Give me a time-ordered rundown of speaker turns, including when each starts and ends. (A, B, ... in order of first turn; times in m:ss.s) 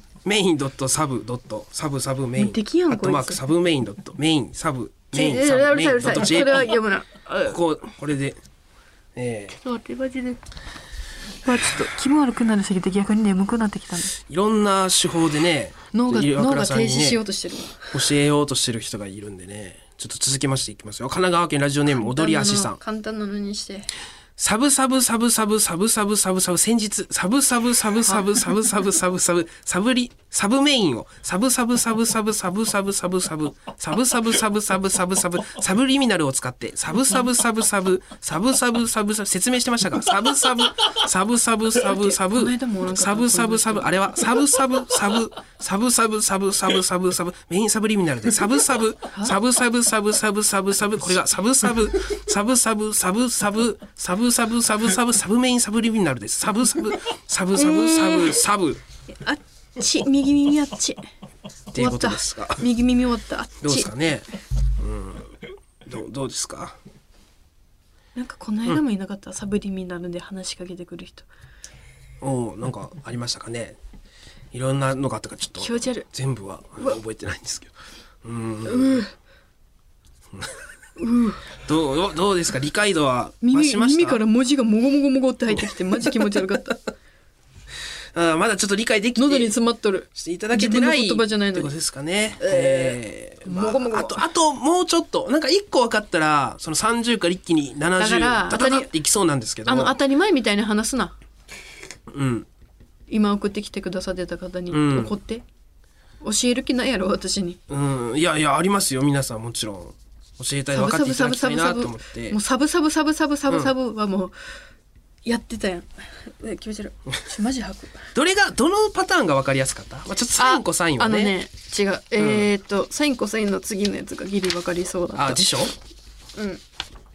0:00.2-0:06.7 A
0:02.4-0:03.4 B
0:05.1-0:07.6 B
0:07.4-0:08.4 A
0:09.2-0:09.6 A
0:09.6-0:10.4 B
0:11.4-0:14.1 B
0:14.2-0:17.2 A
0:15.9-0:18.0 B
0:17.9-0:22.8 A
0:21.9-0:23.9 B
0:24.4-0:58.8 A
0:41.8-0:44.0 B
0:57.5-0:58.4 B
0:59.1-1:01.1 B
1:01.7-1:02.6 A
1:01.7-1:03.9 B
1:03.6-1:06.8 A
1:08.1-1:11.3 B
1:12.2-1:13.8 A
1:14.5-1:17.7 A
1:15.6-1:16.1 B
1:18.2-1:19.0 A
1:18.6-1:19.1 B
1:21.0-1:21.4 B
1:21.6-1:24.2 A
1:23.4-1:26.8 B
1:28.1-1:29.5 A
1:29.2-1:31.7 B
1:30.1-1:40.0 A
1:32.4-1:34.2 B
1:38.0-1:38.9 B
1:39.7-1:41.2 B
1:42.1-1:42.5 A
1:43.1-1:45.4 B
1:44.7-1:45.1 A
1:46.2-1:47.6 B
1:47.7-1:52.4 A
1:50.7-1:54.3 B
1:55.2-1:58.1 B
1:58.1-2:01.4 A
2:00.4-2:05.6 B
2:02.2-2:02.5 A
2:05.1-2:05.7 A
2:06.4-2:06.6 B